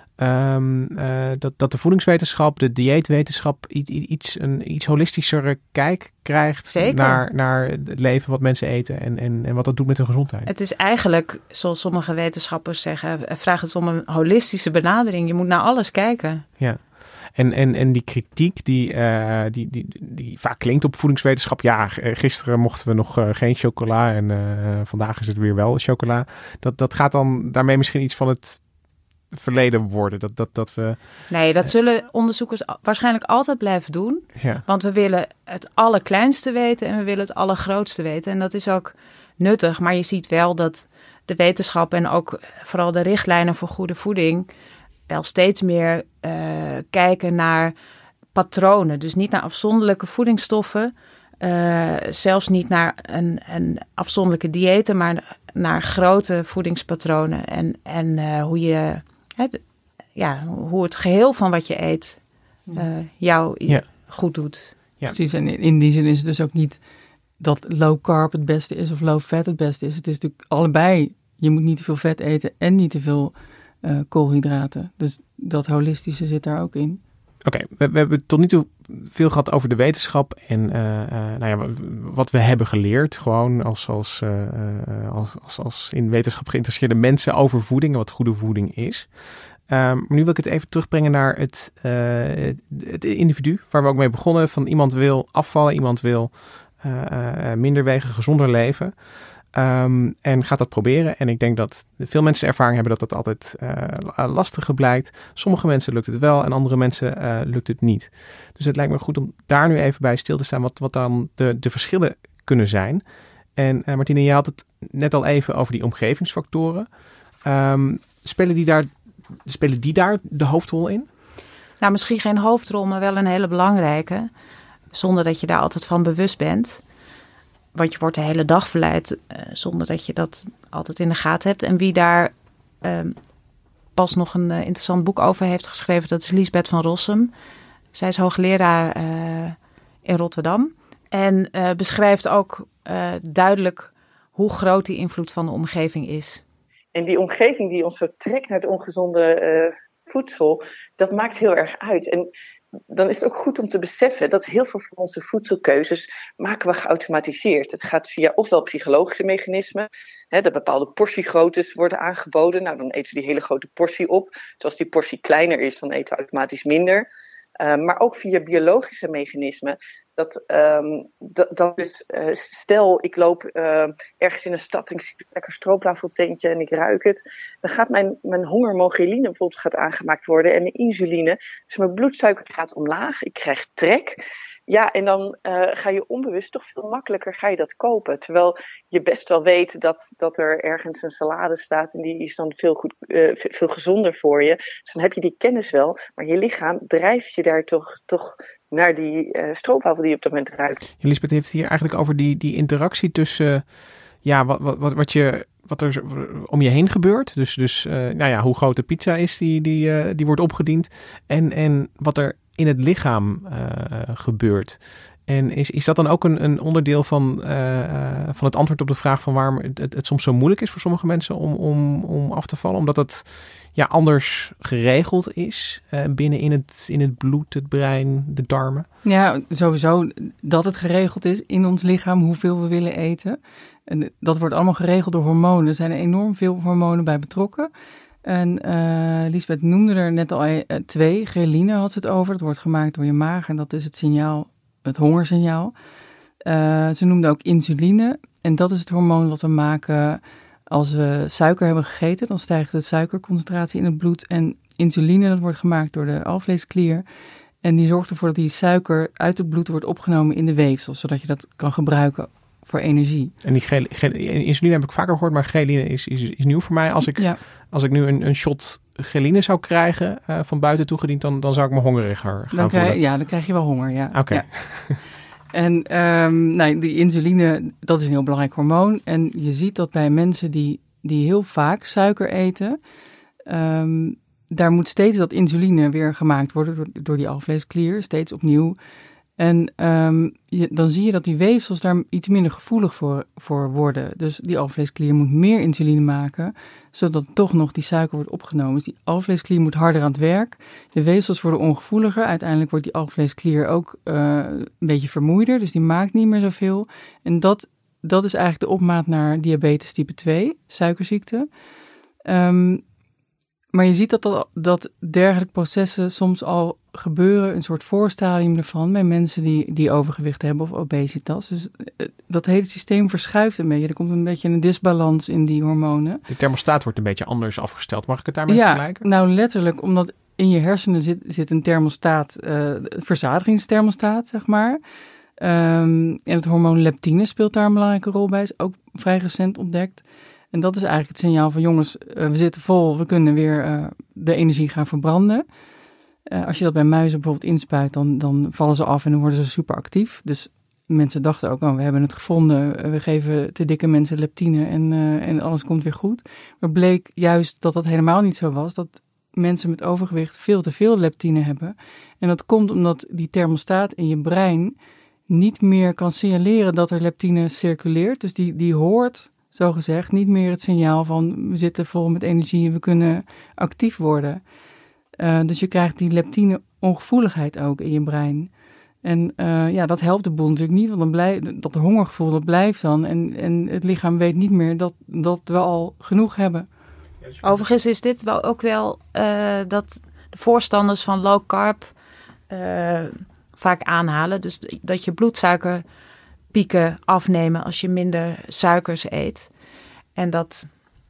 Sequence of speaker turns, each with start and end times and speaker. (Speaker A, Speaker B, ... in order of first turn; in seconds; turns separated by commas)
Speaker A: 0.2-10.5, Speaker B: 6.7-7.3, Speaker B: 10.5-16.4, Speaker A: 16.6-28.6, Speaker A: 29.3-31.7, Speaker B: 31.3-44.5, Speaker A: 34.4-34.6, Speaker B: 45.1-47.7, Speaker B: 48.3-59.6, Speaker B: 60.1-62.2, Speaker B: 62.8-64.7, Speaker C: 65.1-66.8, Speaker C: 67.4-77.0, Speaker A: 77.5-89.1, Speaker A: 89.7-99.0, Speaker A: 99.5-113.0, Speaker A: 113.6-116.9, Speaker A: 117.4-121.1, Speaker B: 121.8-124.3, Speaker B: 124.9-126.8, Speaker B: 127.7-133.2, Speaker B: 133.9-137.3, Speaker B: 137.9-146.4, Speaker D: 146.9-152.3, Speaker D: 152.9-167.1, Speaker D: 167.6-200.8, Speaker A: 201.0-228.9, Speaker C: 229.0-237.7, Speaker C: 238.2-245.7, Speaker C: 246.4-257.0, Speaker C: 257.6-263.3, Speaker A: 263.4-273.0, Speaker C: 272.5-274.9, Speaker A: 274.1-275.0, Speaker C: 275.5-282.8, Speaker C: 283.5-288.8, Speaker C: 289.4-311.5, Speaker C: 312.2-312.8, Speaker C: 313.7-326.2, Speaker A: 326.3-329.1, Speaker C: 328.5-334.8, Speaker C: 335.4-345.4, Speaker C: 346.3-364.8, Speaker C: 365.3-374.4, Speaker C: 375.2-378.5, Speaker C: 379.0-386.7, Speaker B: 387.4-391.9, Speaker B: 392.5-395.8, Speaker B: 396.5-399.5, Speaker B: 400.2-400.7